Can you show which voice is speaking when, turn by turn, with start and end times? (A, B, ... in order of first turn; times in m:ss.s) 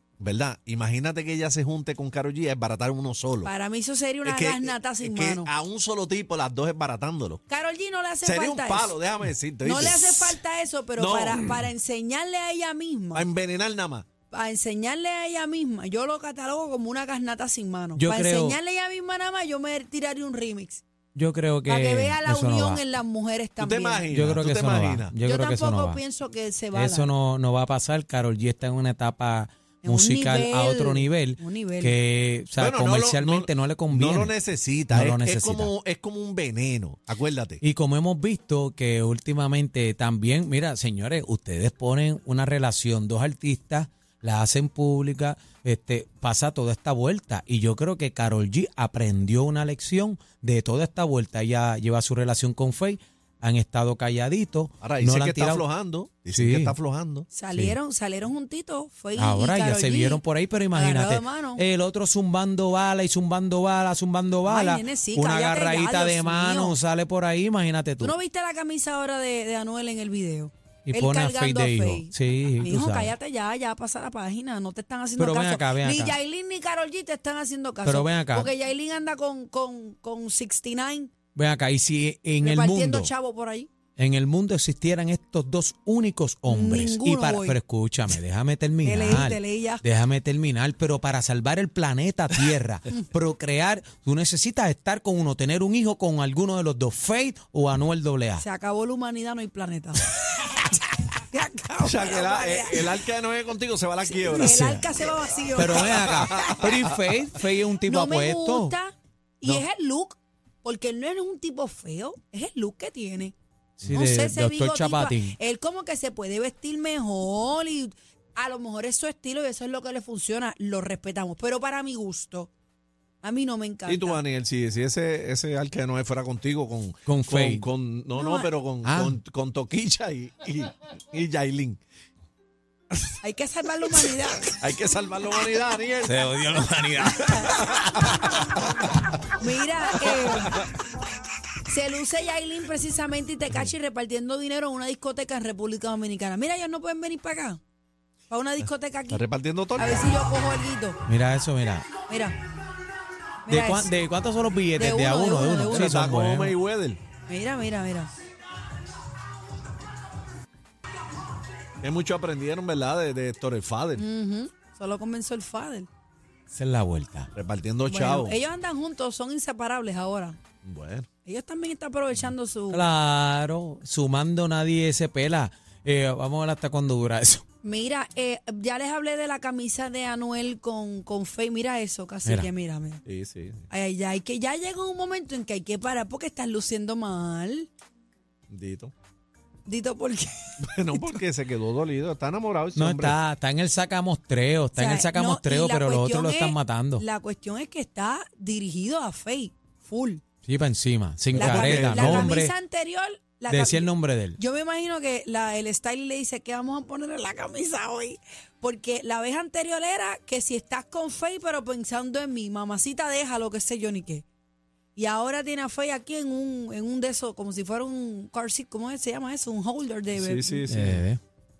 0:00.2-0:03.5 A
0:03.4-0:05.5 B
0:04.2-0:07.4 A
0:07.5-0:09.0 B
0:08.2-0:10.4 A
0:09.6-0:13.3 B
0:11.0-0:11.5 A
0:13.1-0:14.1 A
0:14.3-0:20.8 B
0:18.0-0:18.6 C
0:21.1-0:22.8 C
0:21.6-0:24.1 B
0:23.6-0:25.1 A
0:24.1-0:26.0 C
0:25.2-0:27.1 B
0:26.7-0:34.4 C
0:29.8-0:32.0 B
0:32.6-0:37.6 A
0:34.9-0:35.7 C
0:37.6-0:55.6 C
0:54.8-0:57.3 A
0:56.3-0:56.8 C
0:57.3-1:01.6 B
0:59.1-1:08.2 C
1:04.4-1:06.8 B
1:08.0-1:21.1 B
1:10.9-1:13.1 C
1:15.2-1:16.2 C
1:17.8-1:18.5 C
1:21.3-1:23.1 C
1:22.4-1:23.7 B
1:24.0-1:38.4 C
1:26.5-1:27.6 B
1:28.8-1:29.8 B
1:38.4-1:43.1 B
1:41.8-1:44.6 A
1:44.0-1:46.6 B
1:44.3-1:44.8 C
1:45.5-1:48.8 C
1:45.8-1:46.7 A
1:47.8-1:53.3 B
1:53.8-1:55.4 C
1:53.9-2:02.5 B
2:03.2-2:04.2 B
2:03.8-2:11.8 A
2:07.0-2:07.7 C
2:08.2-2:08.5 B
2:08.8-2:09.2 C
2:13.2-2:14.4 B
2:14.6-2:16.2 A
2:16.0-2:18.2 C
2:19.4-2:20.6 B
2:21.6-2:27.6 B
2:28.3-2:29.2 B
2:28.6-2:30.1 A
2:29.8-2:31.0 B
2:31.0-2:31.9 C
2:32.0-2:32.4 B
2:33.4-2:33.9 B
2:33.5-2:36.6 C
2:34.8-2:35.9 B
2:35.7-2:37.0 A
2:37.3-2:38.1 B
2:41.8-2:44.0 A
2:44.0-2:45.9 B
2:46.5-2:47.3 C
2:47.3-2:48.4 A
2:47.8-2:50.4 B
2:50.6-2:51.1 A
2:51.2-2:52.9 B
2:52.7-2:57.4 C
2:57.6-3:03.0 B
3:02.2-3:02.5 C
3:03.0-3:03.6 A
3:03.7-3:07.7 B
3:08.5-3:08.9 A
3:09.6-3:10.4 B
3:10.6-3:13.2 A
3:12.7-3:17.0 C
3:14.7-3:20.2 B
3:20.4-3:22.5 C
3:21.3-3:22.4 A
3:21.3-3:34.2 B
3:23.5-3:24.4 C
3:34.9-3:40.6 B
3:40.1-3:41.0 A
3:40.7-3:41.2 C